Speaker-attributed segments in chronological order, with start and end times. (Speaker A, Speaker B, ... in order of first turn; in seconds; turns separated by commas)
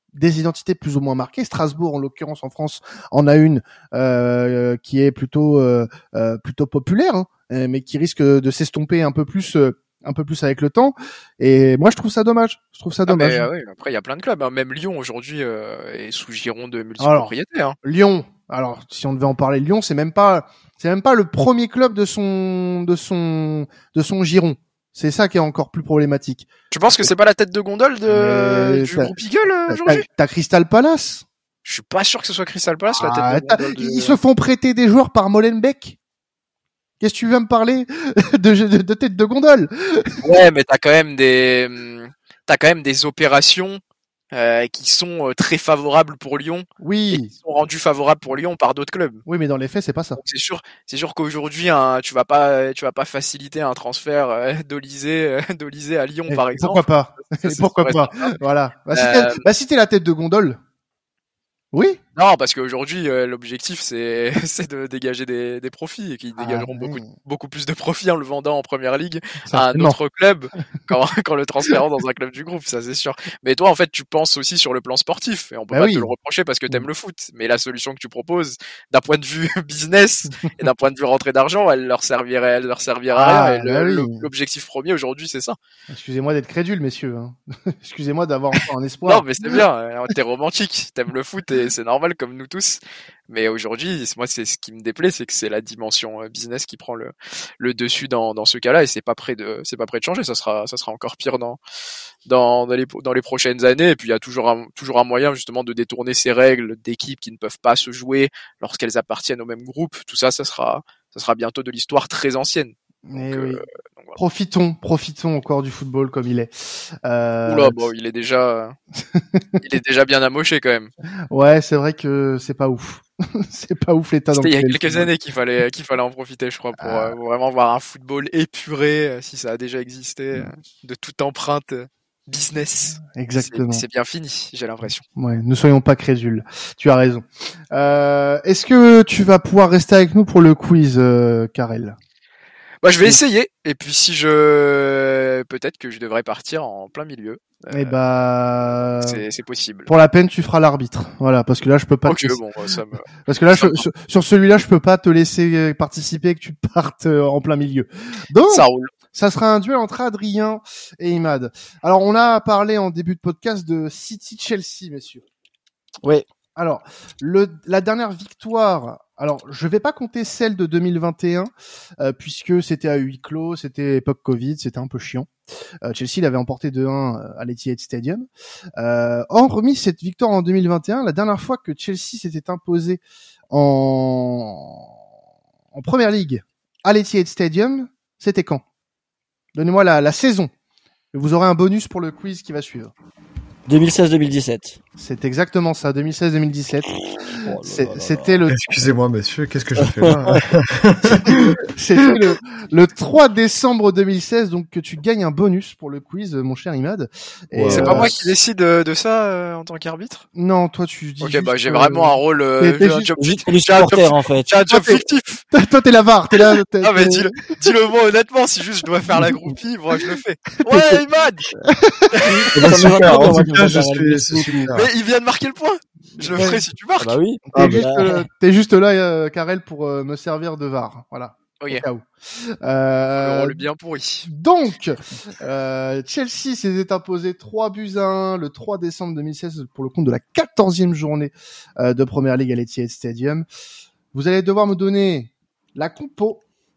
Speaker A: 0.1-13.4, Speaker B: 13.1-17.8, Speaker A: 17.0-26.5, Speaker B: 26.7-30.0, Speaker A: 28.1-29.1, Speaker A: 29.7-31.2, Speaker B: 31.6-34.2, Speaker A: 32.9-36.0, Speaker A: 37.0-40.3, Speaker B: 40.2-43.8, Speaker B: 44.3-49.2, Speaker A: 46.8-47.3, Speaker A: 49.2-50.2, Speaker B: 50.2-56.8, Speaker A: 56.3-60.6, Speaker B: 57.4-58.3, Speaker B: 58.9-59.4, Speaker A: 61.7-62.0, Speaker B: 62.1-85.5, Speaker A: 66.4-67.1, Speaker A: 69.5-70.0, Speaker A: 75.7-76.1, Speaker A: 83.1-84.2, Speaker A: 85.9-89.6, Speaker B: 89.1-101.6, Speaker B: 102.2-114.2, Speaker A: 113.1-113.6, Speaker A: 114.2-117.8, Speaker B: 117.5-118.8, Speaker A: 119.1-119.5, Speaker B: 119.6-120.9, Speaker A: 121.3-125.1, Speaker B: 124.3-135.0, Speaker A: 126.8-127.1, Speaker A: 133.0-133.8, Speaker A: 135.2-142.0, Speaker B: 142.8-147.9, Speaker A: 147.7-149.2, Speaker B: 149.0-149.9, Speaker A: 149.9-152.4, Speaker B: 152.1-153.8, Speaker A: 153.2-165.2, Speaker B: 158.4-158.9, Speaker A: 166.6-175.3, Speaker A: 175.8-178.2, Speaker A: 178.8-184.9, Speaker A: 185.7-188.6, Speaker A: 189.5-190.5, Speaker A: 191.1-192.9, Speaker C: 193.7-194.8, Speaker A: 195.0-198.7, Speaker C: 197.4-198.4, Speaker D: 198.5-202.1, Speaker C: 199.8-200.4, Speaker A: 201.2-208.3, Speaker C: 207.5-208.1, Speaker B: 207.7-210.2, Speaker A: 210.3-213.1, Speaker B: 211.2-215.4, Speaker C: 213.2-214.5, Speaker A: 214.7-217.5, Speaker B: 216.8-221.5, Speaker A: 220.6-221.0, Speaker A: 221.6-223.3, Speaker B: 222.1-222.5, Speaker C: 222.2-224.6, Speaker D: 222.5-224.9, Speaker B: 224.7-227.1, Speaker A: 226.3-226.6, Speaker C: 227.0-228.2, Speaker A: 227.5-233.6, Speaker D: 227.6-227.8, Speaker B: 233.2-234.3, Speaker A: 234.2-243.4, Speaker A: 244.1-246.4